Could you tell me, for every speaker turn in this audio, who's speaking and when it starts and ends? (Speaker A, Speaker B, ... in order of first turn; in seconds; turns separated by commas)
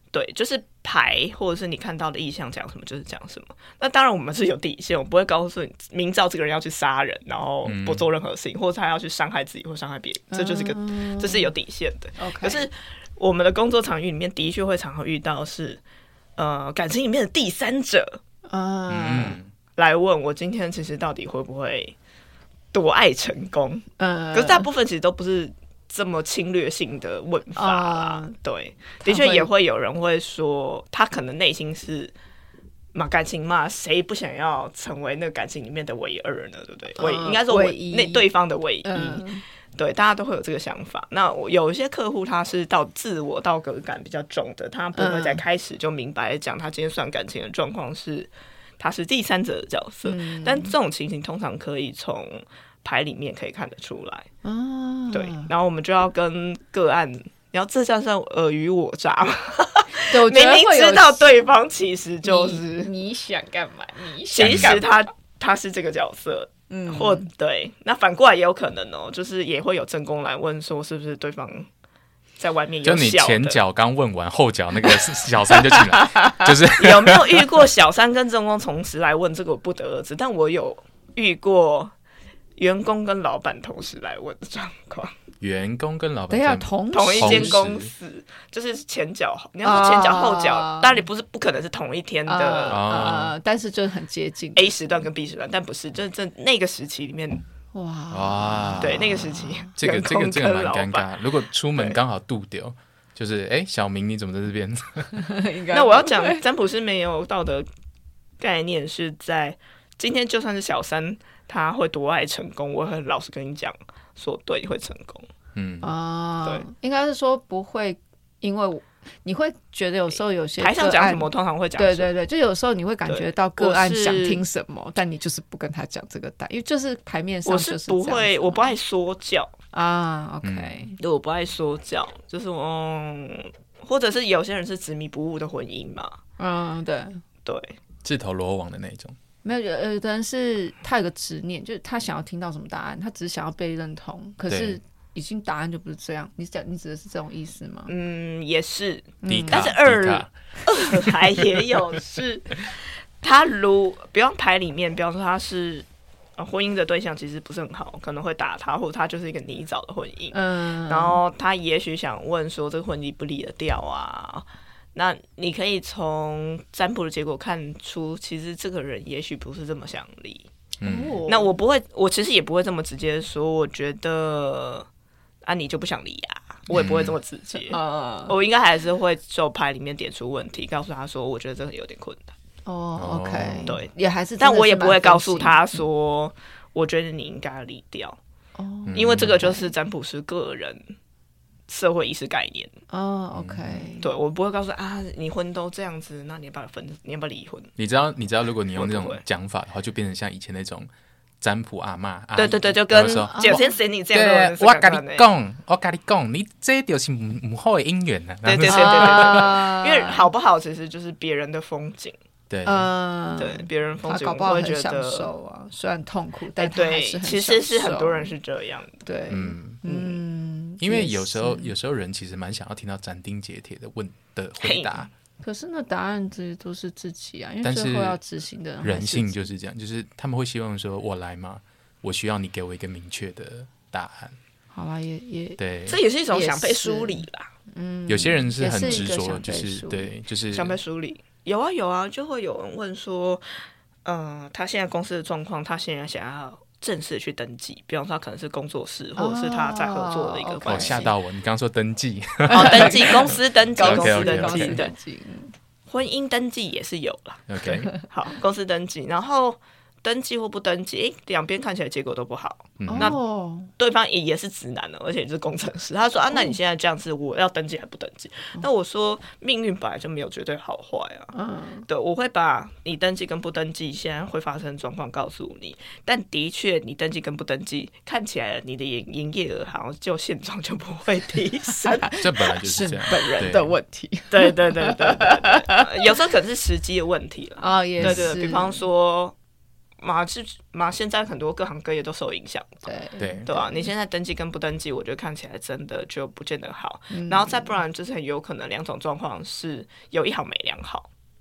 Speaker A: 0.1-15.8, Speaker B: 7.7-8.1, Speaker C: 10.3-11.5, Speaker C: 12.2-12.7, Speaker A: 16.4-18.2, Speaker C: 18.5-19.4, Speaker B: 18.9-19.5, Speaker A: 19.8-21.9, Speaker A: 22.7-32.1, Speaker C: 24.0-24.7, Speaker C: 27.6-28.4, Speaker C: 29.0-29.5, Speaker A: 32.9-39.2, Speaker C: 37.0-38.2, Speaker C: 38.9-39.4, Speaker A: 39.8-54.3, Speaker C: 45.0-45.4, Speaker C: 50.0-50.7, Speaker C: 54.4-55.5, Speaker A: 55.1-62.9, Speaker C: 60.1-61.4, Speaker C: 62.2-64.9, Speaker A: 64.3-71.7, Speaker B: 64.4-64.8, Speaker C: 66.7-67.3, Speaker A: 72.4-73.6, Speaker B: 72.8-77.5, Speaker C: 76.1-76.4, Speaker A: 76.7-81.9, Speaker A: 82.6-85.1, Speaker B: 85.4-87.9, Speaker C: 86.3-87.6, Speaker A: 86.9-92.8, Speaker C: 89.6-91.0, Speaker C: 92.3-94.8, Speaker B: 92.7-93.3, Speaker A: 94.6-97.4, Speaker C: 97.7-99.7, Speaker B: 98.1-99.2, Speaker A: 98.8-101.1, Speaker B: 99.8-105.2, Speaker C: 105.1-106.4, Speaker A: 105.7-107.7, Speaker A: 108.4-115.3, Speaker B: 115.5-115.9, Speaker C: 115.8-128.7, Speaker A: 120.6-122.1, Speaker A: 123.1-124.4, Speaker A: 127.5-129.5, Speaker C: 129.7-131.0, Speaker B: 130.4-130.9, Speaker A: 131.0-136.2, Speaker C: 136.4-137.2, Speaker A: 137.4-137.8, Speaker B: 138.0-139.2, Speaker C: 139.4-147.9, Speaker B: 144.5-144.8, Speaker A: 147.9-155.9, Speaker C: 149.2-149.7, Speaker B: 149.3-150.3, Speaker B: 151.1-151.6, Speaker A: 156.4-170.5, Speaker C: 160.3-161.2, Speaker B: 170.8-171.2, Speaker C: 170.8-171.5, Speaker A: 171.3-174.9, Speaker A: 175.4-182.3, Speaker B: 176.7-177.2, Speaker C: 177.7-178.3, Speaker C: 182.7-185.6, Speaker B: 183.0-183.7, Speaker A: 183.7-188.2, Speaker C: 188.6-189.7, Speaker B: 188.9-189.4, Speaker A: 188.9-190.9, Speaker A: 191.7-192.7, Speaker C: 192.9-194.1, Speaker B: 193.3-193.9, Speaker A: 194.0-197.7, Speaker B: 197.8-200.9, Speaker A: 198.8-199.2, Speaker B: 201.4-203.6, Speaker A: 202.4-205.3, Speaker C: 203.3-203.7, Speaker B: 204.1-209.6, Speaker A: 208.4-212.2, Speaker C: 208.7-210.3, Speaker B: 212.5-212.9, Speaker C: 212.7-218.3, Speaker A: 213.4-215.3, Speaker A: 216.6-219.0, Speaker C: 219.0-221.7, Speaker B: 219.3-219.8, Speaker B: 220.8-225.1, Speaker A: 224.6-225.1, Speaker C: 225.4-229.4, Speaker B: 227.6-228.2, Speaker B: 228.8-234.4, Speaker C: 234.7-235.6, Speaker B: 235.6-236.0, Speaker A: 235.9-237.5, Speaker C: 236.3-240.1, Speaker B: 238.1-240.8, Speaker A: 240.5-243.4, Speaker A: 244.1-251.1, Speaker C: 249.2-251.1, Speaker B: 250.7-254.8, Speaker C: 252.5-255.5, Speaker A: 252.5-254.9, Speaker A: 255.9-263.2, Speaker B: 257.5-257.9, Speaker B: 262.8-263.2, Speaker C: 262.9-263.7, Speaker A: 263.8-271.3, Speaker C: 271.3-271.9, Speaker A: 271.9-282.1, Speaker C: 281.7-286.1, Speaker B: 282.2-283.7, Speaker A: 284.3-289.4, Speaker C: 287.6-288.8, Speaker B: 288.0-288.3, Speaker A: 290.0-292.8, Speaker C: 292.9-293.9, Speaker B: 293.2-293.4, Speaker A: 293.5-301.1, Speaker C: 297.1-297.8